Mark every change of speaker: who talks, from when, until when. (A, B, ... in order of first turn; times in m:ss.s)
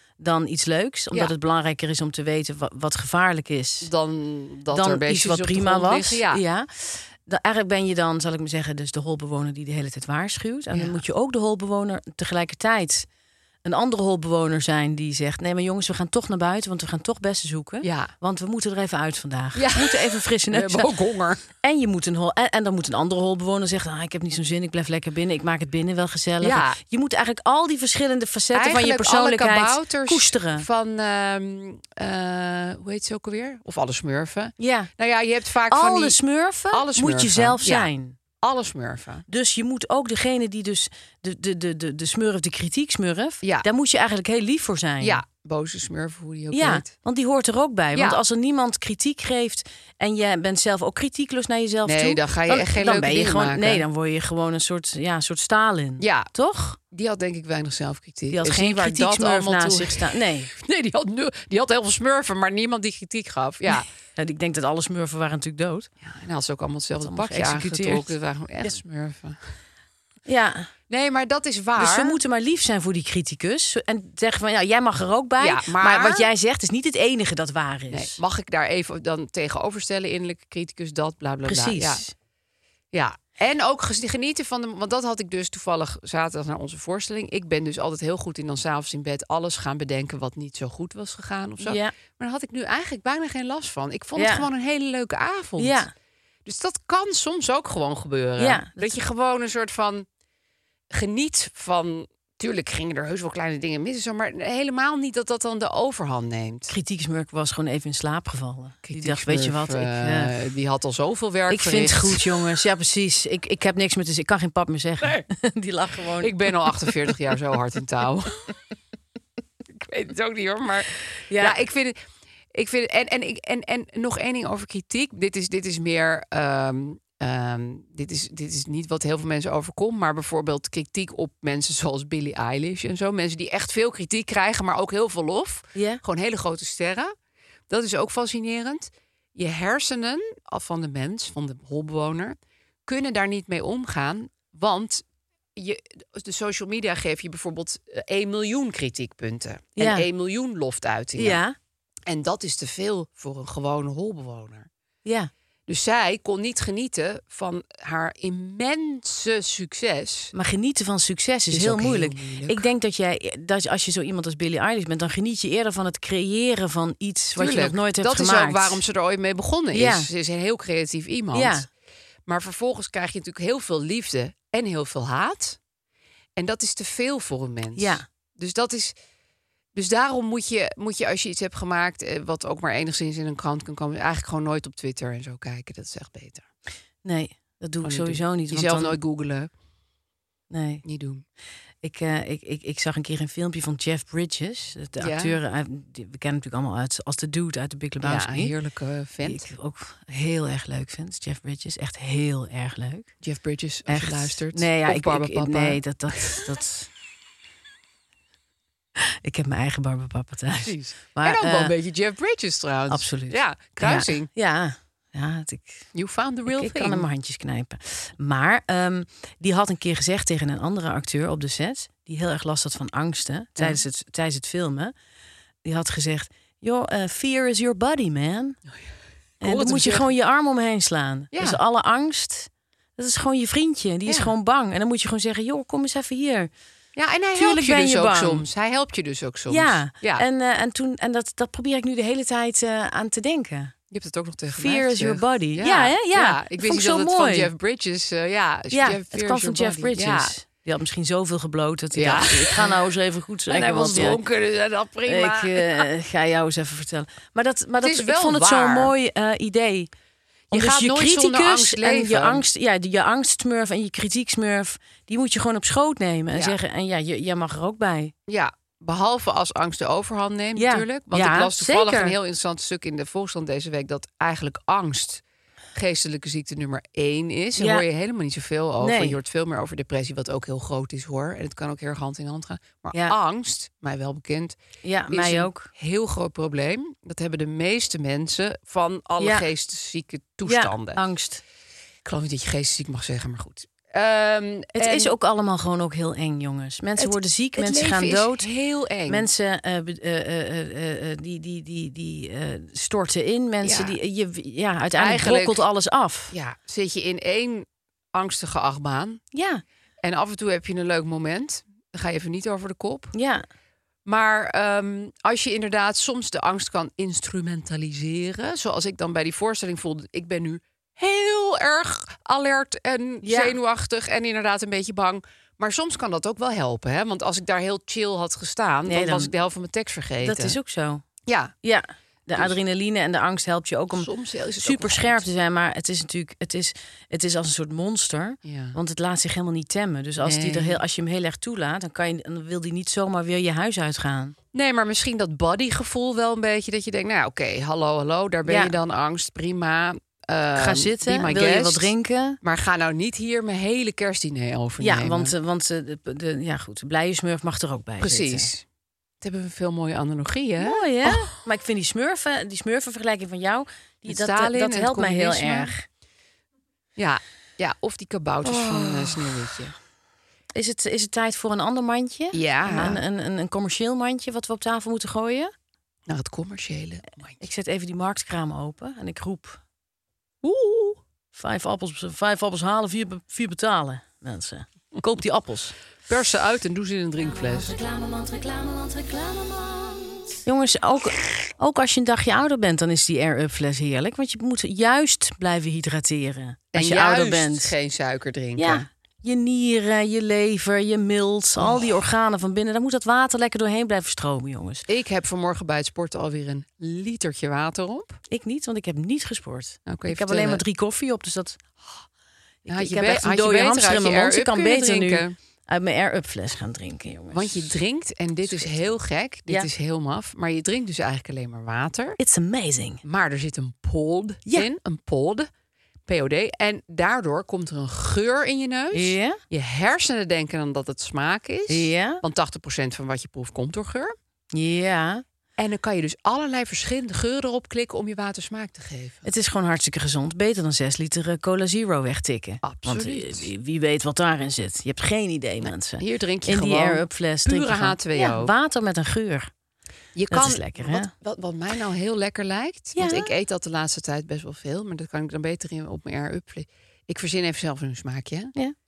0:00.2-0:03.9 A
0:03.8-0:06.4 B
0:04.7-0:13.1 A
0:10.7-0:11.0 B
0:13.6-0:20.9 A
0:17.8-0:18.1 B
0:19.6-0:21.4 B
0:21.6-0:30.7 A
0:26.4-0:26.8 B
0:28.5-0:36.2 B
0:34.6-0:34.9 A
0:35.7-0:38.2 A
0:36.7-0:37.9 B
0:38.4-0:39.3 B
0:39.3-0:45.2 A
0:43.4-0:43.7 B
0:45.0-0:46.9 B
0:46.5-0:56.8 A
0:48.0-0:48.2 B
0:51.9-0:53.8 B
0:56.0-0:56.3 B
0:56.9-1:03.9 B
0:58.3-1:00.5 A
1:03.7-1:05.9 A
1:06.0-1:09.4 B
1:07.0-1:08.1 A
1:10.3-1:10.7 A
1:10.9-1:12.2 B
1:11.8-1:18.2 A
1:15.4-1:16.3 B
1:17.9-1:22.0 B
1:21.5-1:22.1 A
1:22.9-1:35.9 B
1:31.6-1:31.9 A
1:34.2-1:34.5 A
1:35.6-1:35.9 A
1:36.5-1:40.1 B
1:38.4-1:38.9 A
1:40.9-1:46.7 B
1:46.7-1:50.3 A
1:48.8-1:52.2 B
1:51.5-1:56.7 A
1:56.2-1:58.5 B
1:59.8-2:02.0 B
2:01.3-2:01.6 A
2:02.5-2:17.1 B
2:15.8-2:16.0 A
2:17.7-2:25.0 B
2:25.6-2:31.4 B
2:29.8-2:30.1 A
2:31.2-2:31.6 A
2:32.1-2:34.7 B
2:35.0-2:35.3 A
2:35.7-2:40.3 B
2:40.3-2:48.8 A
2:41.5-2:42.7 B
2:47.4-2:51.7 B
2:49.7-2:50.1 A
2:51.3-2:51.7 A
2:52.3-2:55.6 B
2:56.4-2:58.9 B
2:57.8-2:58.0 A
2:59.8-3:06.4 B
3:07.0-3:09.0 A
3:07.8-3:09.5 B
3:10.5-3:10.8 A
3:10.8-3:11.2 B
3:11.8-3:18.5 A
3:15.0-3:15.4 B
3:18.0-3:19.5 B
3:19.2-3:23.1 A
3:23.2-3:26.4 B
3:23.9-3:26.9 A
3:29.0-3:31.7 A
3:30.6-3:34.3 B
3:32.9-3:35.9 A
3:36.0-3:37.1 B
3:36.5-3:44.9 A
3:45.6-3:48.6 A
3:49.4-3:50.1 B
3:49.4-3:56.5 A
3:51.3-3:51.6 B
3:54.1-3:54.3 B
3:57.0-4:00.2 B
3:57.4-3:58.4 A
3:59.5-4:03.7 A
4:03.9-4:10.3 B
4:04.5-4:07.5 A
4:08.7-4:14.2 A
4:12.0-4:12.8 B
4:13.5-4:15.9 B
4:15.1-4:19.9 A
4:17.8-4:18.9 B
4:20.5-4:22.4 B
4:20.5-4:28.1 A
4:28.3-4:35.2 B
4:30.6-4:32.2 A
4:35.8-4:44.6 B
4:37.6-4:37.8 A
4:38.8-4:39.2 A
4:44.8-4:45.7 A
4:45.1-4:51.0 B
4:49.2-4:49.5 A
4:50.4-4:51.4 A
4:52.0-4:55.1 B
4:54.8-4:58.5 A
4:57.0-4:59.3 B
4:59.1-5:06.3 A
5:03.6-5:04.0 B
5:05.0-5:05.6 B
5:06.3-5:09.2 B
5:09.3-5:09.6 A
5:10.0-5:13.1 B
5:13.1-5:13.4 A
5:14.1-5:30.6 B
5:23.2-5:23.6 A
5:28.9-5:29.3 A
5:30.2-5:31.0 A
5:31.3-5:31.5 B
5:31.6-5:34.1 A
5:33.9-5:35.2 B
5:34.6-5:44.4 A
5:38.4-5:38.8 B
5:40.2-5:40.8 B
5:44.5-5:55.3 B
5:48.5-5:48.8 A
5:50.6-5:52.4 A
5:54.8-5:58.5 A
5:58.0-5:58.6 B
5:59.2-6:01.3 B
6:00.6-6:05.9 A
6:04.1-6:05.7 B
6:07.0-6:09.7 B
6:08.4-6:09.5 A
6:10.6-6:15.5 A
6:12.3-6:13.0 B
6:16.1-6:17.4 B
6:17.4-6:19.6 A
6:20.4-6:21.0 B
6:21.3-6:25.8 A
6:26.1-6:27.7 B
6:27.4-6:37.7 A
6:36.7-6:38.9 B
6:38.6-6:44.9 A
6:41.6-6:41.9 B
6:44.9-6:48.2 B
6:48.3-6:51.8 A
6:49.9-6:50.6 B
6:52.6-6:57.7 A
6:52.7-6:55.4 B
6:57.3-7:02.2 B
6:58.4-6:58.9 A
7:02.2-7:03.0 A
7:03.0-7:05.5 B
7:06.1-7:14.2 B
7:08.9-7:09.4 A
7:11.7-7:12.2 A
7:14.5-7:15.2 A
7:15.6-7:19.3 B
7:19.2-7:29.5 A
7:22.6-7:23.5 B
7:26.0-7:28.5 B
7:30.2-7:38.5 B
7:30.3-7:31.1 A
7:33.0-7:33.3 A